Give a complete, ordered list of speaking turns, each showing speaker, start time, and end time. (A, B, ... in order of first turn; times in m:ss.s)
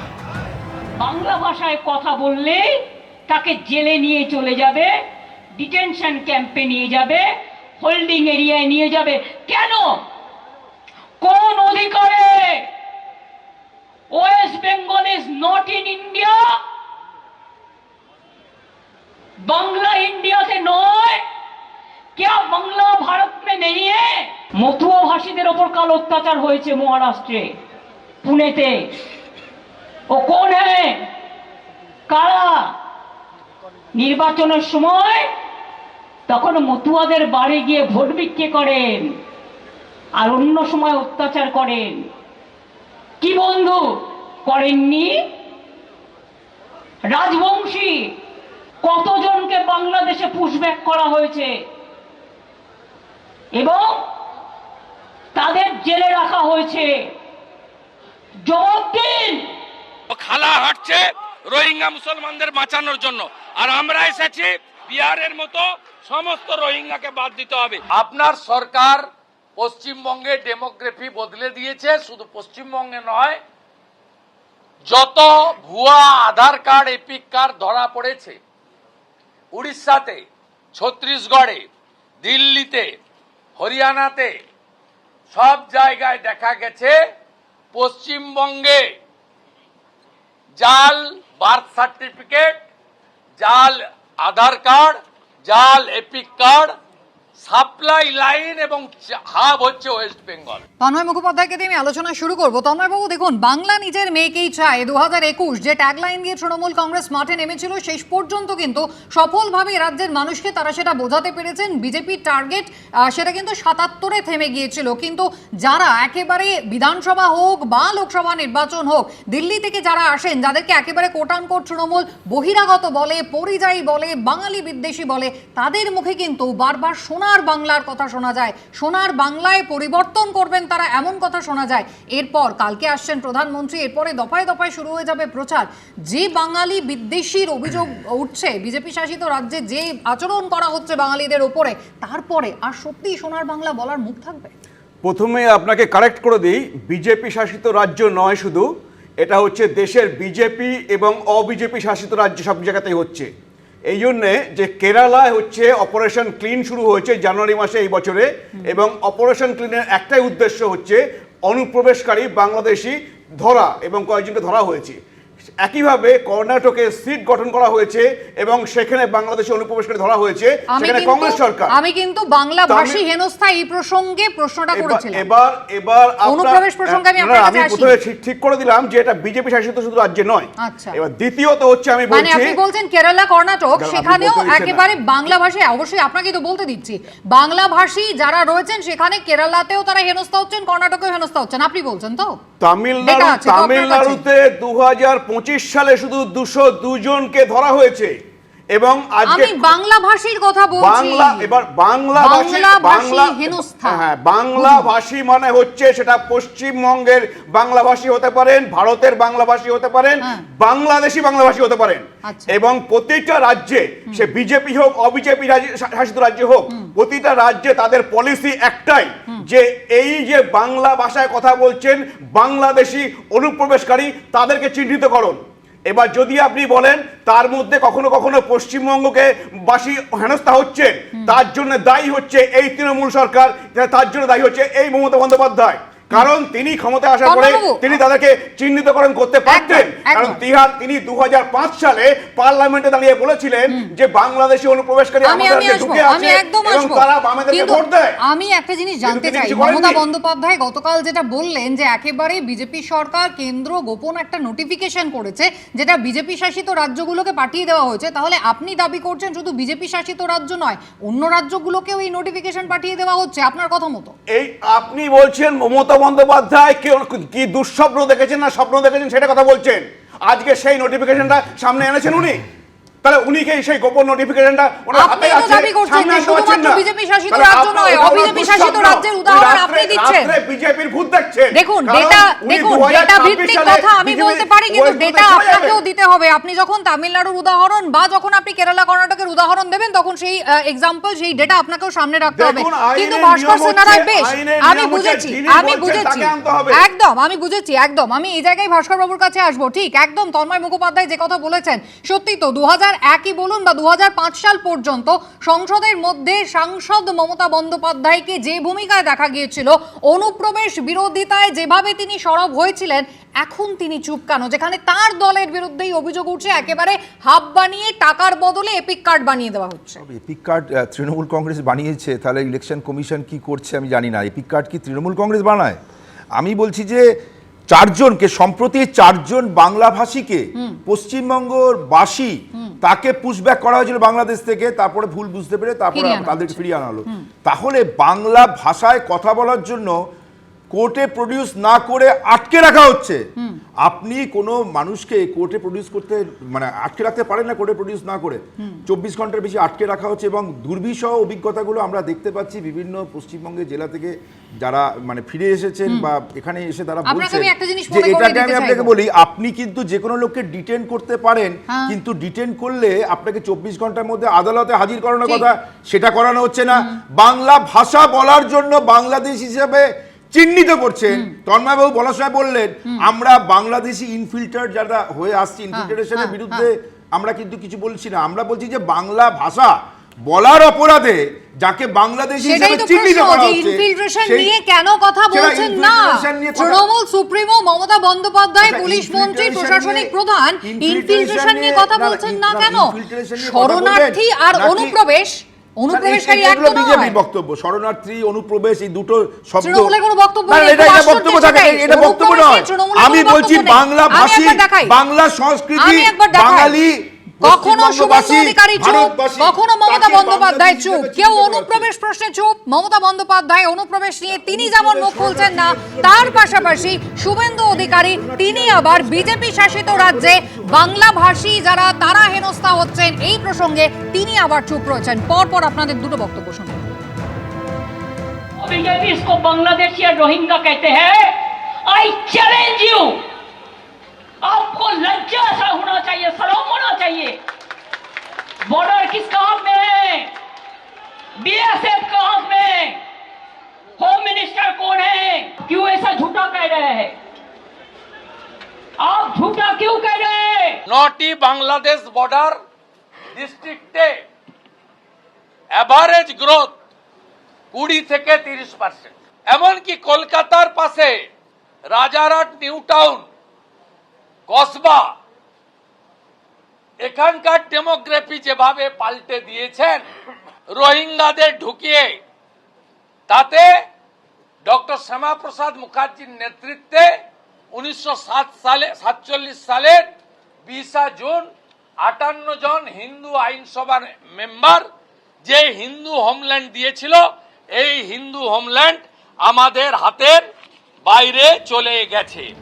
0:01.0-0:05.0 A
0:05.6-0:07.3 A
0:07.8-0:10.0 A
0:11.2-0:12.7 A
0:14.1-0:16.6 A
0:19.4-0:21.2 A
0:22.2-0:27.5 A
0:28.2-0:28.9 A
0:30.1-0:31.1 A
0:32.1-0:32.8 A
0:34.0-0:35.3 A
0:36.3-0:39.2 A
0:40.2-0:42.1 A
0:43.2-0:45.3 A
0:47.1-0:48.1 A
0:48.8-0:51.5 A
0:53.6-0:54.0 A
0:55.3-0:57.1 A
0:58.4-0:59.6 A
1:00.1-1:09.0 B
1:09.6-1:13.4 B
1:14.9-1:18.4 B
1:19.5-1:20.2 B
1:20.8-1:21.7 B
1:22.2-1:23.0 B
1:23.6-1:24.4 B
1:25.3-1:27.0 B
1:27.7-1:28.9 B
1:30.6-1:32.6 B
1:33.4-1:36.7 B
1:37.4-1:40.6 B
1:40.8-2:24.5 C
2:25.0-2:28.7 D
2:29.2-2:33.3 D
2:33.9-2:45.0 D
2:45.6-2:51.8 D
2:50.7-2:55.2 C
2:52.7-2:53.0 D
2:54.7-3:02.6 D
2:56.3-2:58.0 C
3:00.6-3:01.0 C
3:02.1-3:12.4 C
3:03.8-3:04.8 D
3:12.6-3:18.1 D
3:13.0-3:14.2 C
3:18.7-3:19.6 D
3:19.3-3:21.5 C
3:20.8-4:08.2 D
3:22.2-3:24.0 C
3:24.6-3:24.9 C
3:32.2-3:32.5 C
3:57.2-3:58.0 C
3:59.5-4:00.4 C
4:05.2-4:24.2 C
4:09.0-4:10.0 D
4:24.3-4:32.4 D
4:33.0-4:45.8 D
4:34.9-4:40.4 C
4:41.5-5:20.0 C
4:52.4-4:56.8 D
5:20.0-5:25.8 E
5:26.4-5:27.1 E
5:27.7-5:40.0 E
5:35.9-5:37.3 C
5:40.7-5:43.2 E
5:43.8-6:24.5 E
5:57.1-5:58.9 C
6:01.7-6:02.0 C
6:15.7-6:16.7 C
6:22.4-6:37.2 C
6:25.3-6:26.8 E
6:28.6-6:30.1 E
6:30.6-6:35.0 E
6:35.9-6:40.0 E
6:39.6-6:44.9 C
6:40.5-6:51.9 E
6:45.8-6:46.8 C
6:47.4-7:06.8 C
6:54.3-6:57.2 E
6:57.7-7:00.9 E
7:08.6-7:13.2 A
7:14.4-7:17.4 A
7:18.7-7:20.3 A
7:21.4-7:23.0 A
7:24.0-7:27.2 A
7:29.0-7:30.8 A
7:30.9-7:32.6 B
7:33.4-7:34.2 B
7:35.7-7:36.7 B
7:37.7-7:41.2 B
7:41.9-7:43.2 B
7:44.5-7:45.1 B
7:47.0-7:50.0 B
7:50.7-7:52.2 B
7:53.3-7:53.7 B
7:54.6-7:57.1 B
7:57.7-8:00.1 B
8:00.7-8:01.5 B
8:02.0-8:04.8 B
8:05.4-8:07.2 B
8:07.8-8:10.4 B
8:11.1-8:12.5 B